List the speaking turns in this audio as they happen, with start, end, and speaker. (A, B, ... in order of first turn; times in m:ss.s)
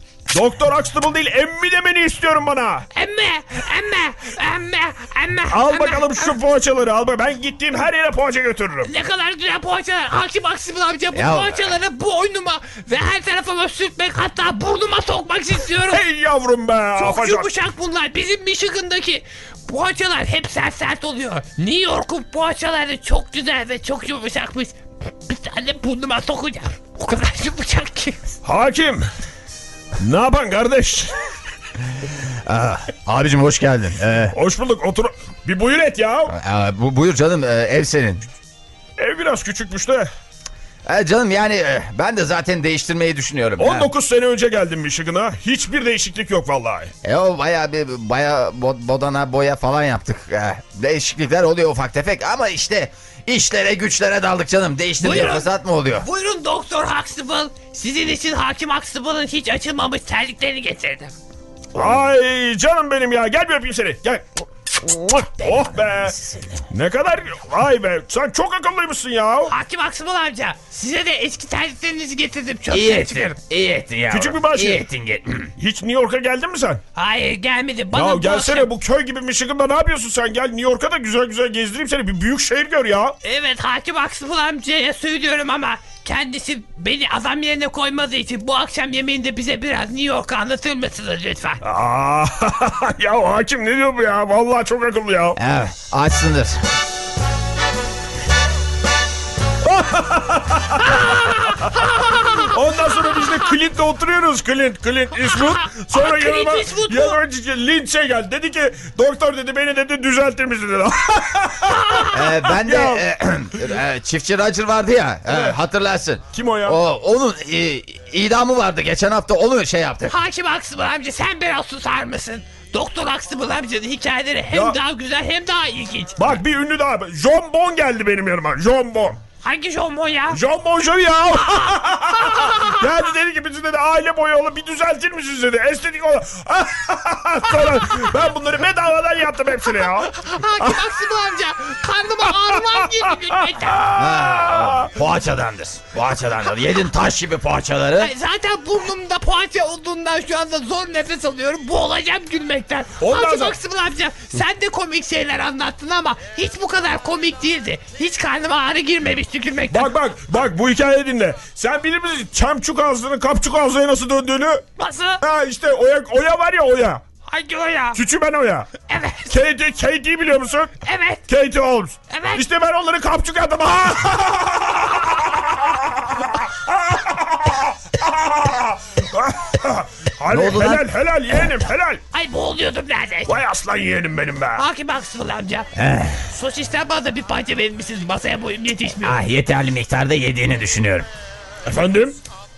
0:00.3-0:02.9 A
0:02.9-0:06.3 B
0:05.5-0:08.9 A
0:08.8-0:16.0 B
0:11.1-0:11.6 C
0:15.9-0:17.5 A
0:17.0-0:28.2 B
0:28.4-0:29.1 A
0:30.0-0:31.2 A
0:32.5-0:34.4 C
0:34.3-0:36.4 A
0:36.3-0:38.3 C
0:39.0-0:40.1 A
0:40.9-0:43.9 C
0:43.6-0:46.9 A
0:47.0-0:56.1 C
0:55.0-1:01.1 B
1:01.7-1:06.1 A
1:05.2-1:06.7 C
1:06.7-1:09.5 A
1:09.5-1:13.4 B
1:12.7-1:15.5 C
1:14.1-1:14.8 A
1:15.6-1:16.8 A
1:17.0-1:18.7 B
1:17.9-1:23.2 A
1:23.2-1:31.6 B
1:31.6-1:35.4 A
1:35.4-1:36.6 C
1:39.6-1:53.0 A
1:40.8-1:42.5 B
1:45.3-1:47.2 B
1:51.7-1:52.2 B
1:52.1-2:00.2 C
1:55.3-1:55.6 A
1:56.3-1:56.8 A
2:00.1-2:06.2 B
2:04.5-2:04.8 A
2:06.2-2:09.2 A
2:09.4-2:10.4 B
2:10.3-2:20.8 A
2:11.5-2:12.9 B
2:20.0-2:23.9 B
2:22.7-2:24.9 A
2:23.9-2:28.1 C
2:28.0-2:39.9 B
2:33.0-2:33.6 A
2:39.7-2:44.6 A
2:44.8-2:45.2 B
2:45.2-2:47.0 A
2:47.3-2:48.0 B
2:48.0-2:48.7 A
2:48.9-2:49.3 B
2:49.3-2:50.8 A
2:50.8-2:51.2 B
2:51.3-3:02.0 A
2:52.1-2:52.4 B
3:00.3-3:01.5 C
3:02.1-3:03.4 B
3:03.3-3:04.6 A
3:04.6-3:05.7 B
3:05.8-3:06.2 C
3:06.3-3:09.2 B
3:09.0-3:11.1 C
3:11.6-3:12.2 A